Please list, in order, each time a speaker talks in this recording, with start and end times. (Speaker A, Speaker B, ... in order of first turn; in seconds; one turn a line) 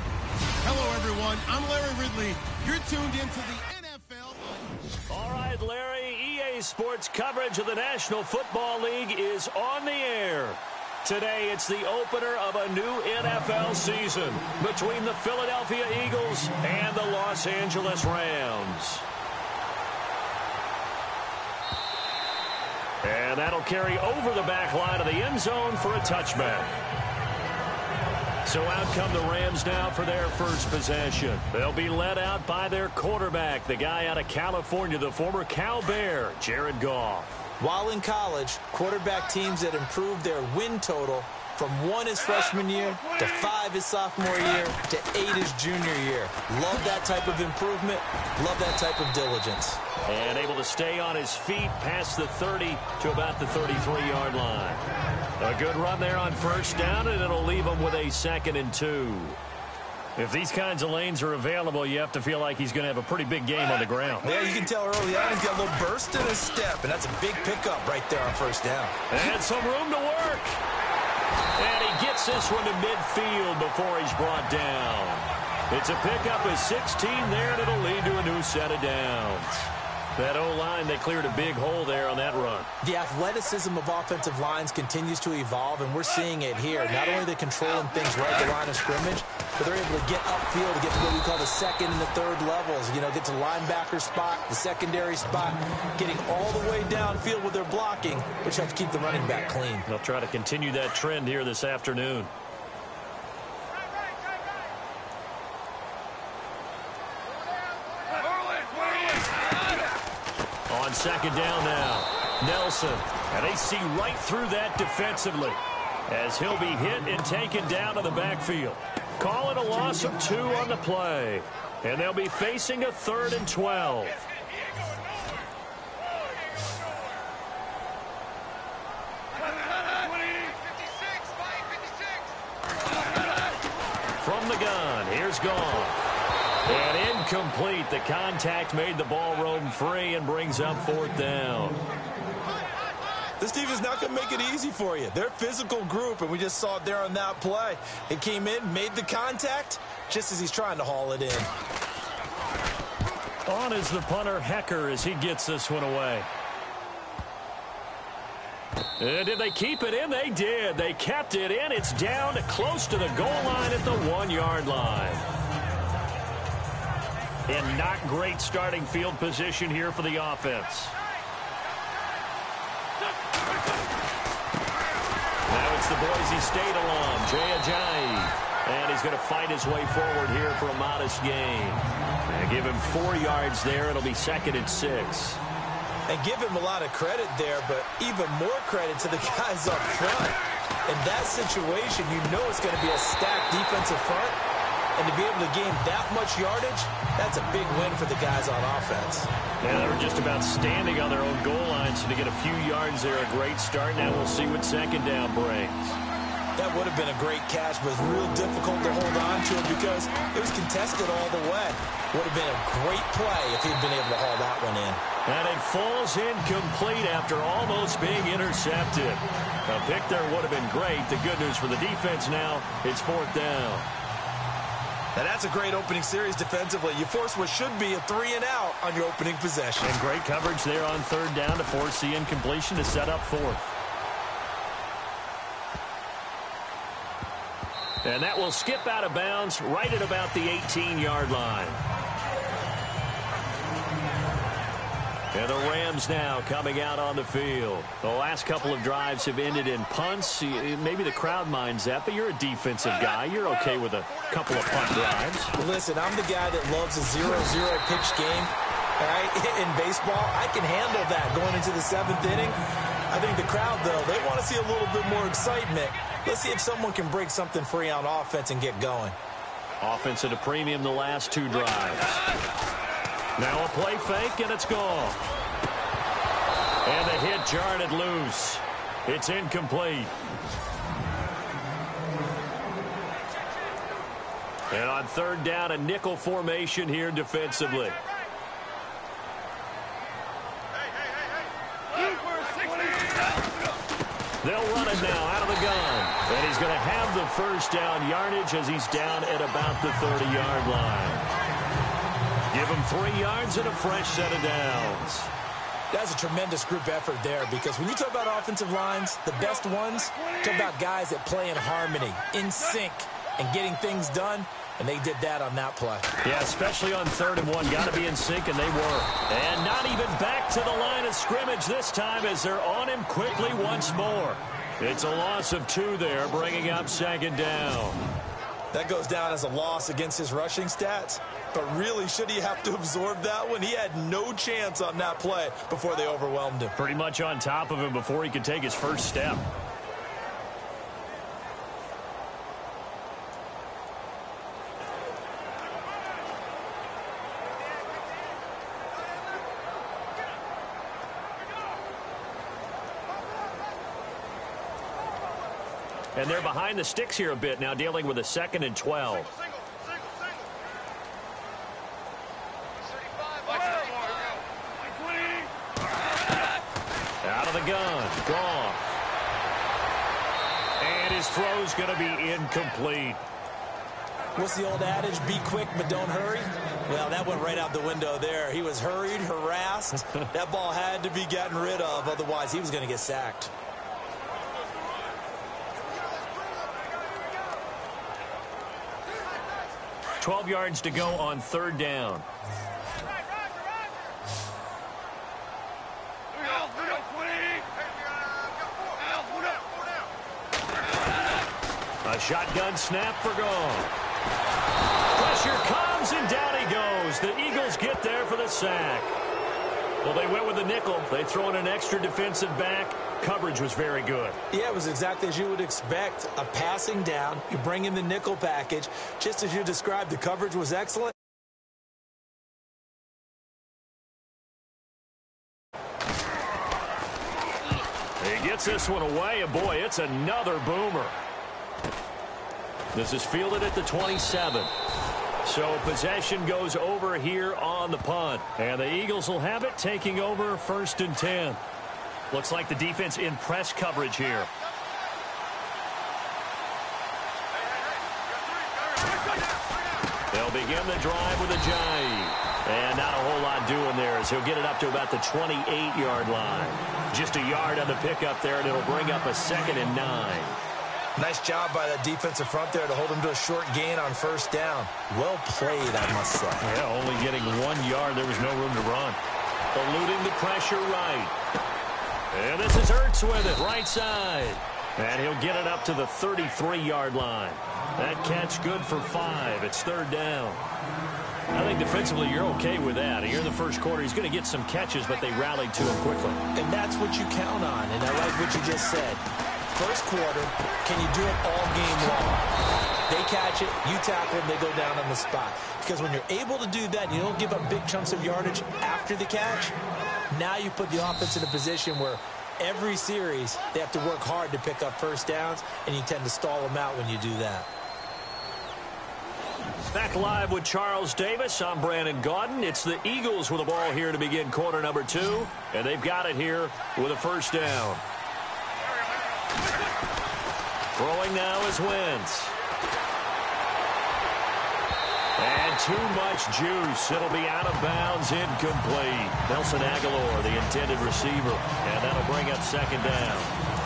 Speaker A: 0.6-4.5
Speaker B: 5.1-19.1
Speaker B: 23.0-26.7
Speaker B: 28.4-37.3
Speaker C: 37.6-49.8
Speaker B: 50.0-54.8
Speaker B: 55.4-59.4
Speaker B: 60.1-64.3
Speaker C: 64.2-68.9
Speaker B: 69.1-70.6
Speaker B: 71.6-82.7
Speaker C: 82.8-99.9
Speaker B: 99.8-102.3
Speaker B: 110.7-124.2
Speaker B: 134.2-136.0
Speaker B: 136.7-141.8
Speaker C: 143.4-151.5
Speaker B: 153.4-156.3
Speaker B: 159.0-165.2
Speaker B: 167.5-170.9
Speaker B: 175.5-185.4
Speaker C: 186.1-194.4
Speaker C: 194.9-199.3
Speaker B: 199.6-206.0
Speaker C: 206.6-215.0
Speaker B: 215.2-223.9
Speaker C: 225.1-229.9
Speaker B: 229.8-233.7
Speaker B: 238.0-241.8
Speaker B: 245.3-255.5
Speaker C: 255.6-262.6
Speaker C: 263.1-269.1
Speaker B: 269.8-272.2
Speaker B: 273.4-275.2
Speaker B: 276.8-280.1
Speaker B: 284.7-288.0
Speaker B: 294.4-301.3
Speaker B: 302.5-305.3
Speaker C: 305.9-316.1
Speaker B: 316.2-328.0
Speaker C: 328.7-336.7
Speaker B: 336.8-339.4
Speaker B: 356.1-359.3
Speaker B: 367.2-368.8
Speaker B: 370.8-373.2
Speaker C: 374.3-383.5
Speaker B: 390.2-392.2
Speaker B: 402.0-403.9
Speaker B: 405.1-409.1
Speaker B: 410.0-414.4
Speaker C: 414.5-421.1
Speaker B: 428.2-431.1
Speaker B: 432.9-434.7
Speaker B: 435.4-441.6
Speaker B: 442.3-444.5
Speaker B: 450.3-460.6
Speaker C: 461.2-466.6
Speaker B: 466.6-469.2
Speaker B: 469.7-471.3
Speaker B: 472.3-480.7
Speaker B: 481.5-486.4
Speaker C: 486.5-492.5
Speaker C: 493.1-499.8
Speaker C: 500.3-507.7
Speaker B: 509.9-518.0
Speaker B: 520.9-522.5
Speaker B: 525.4-533.5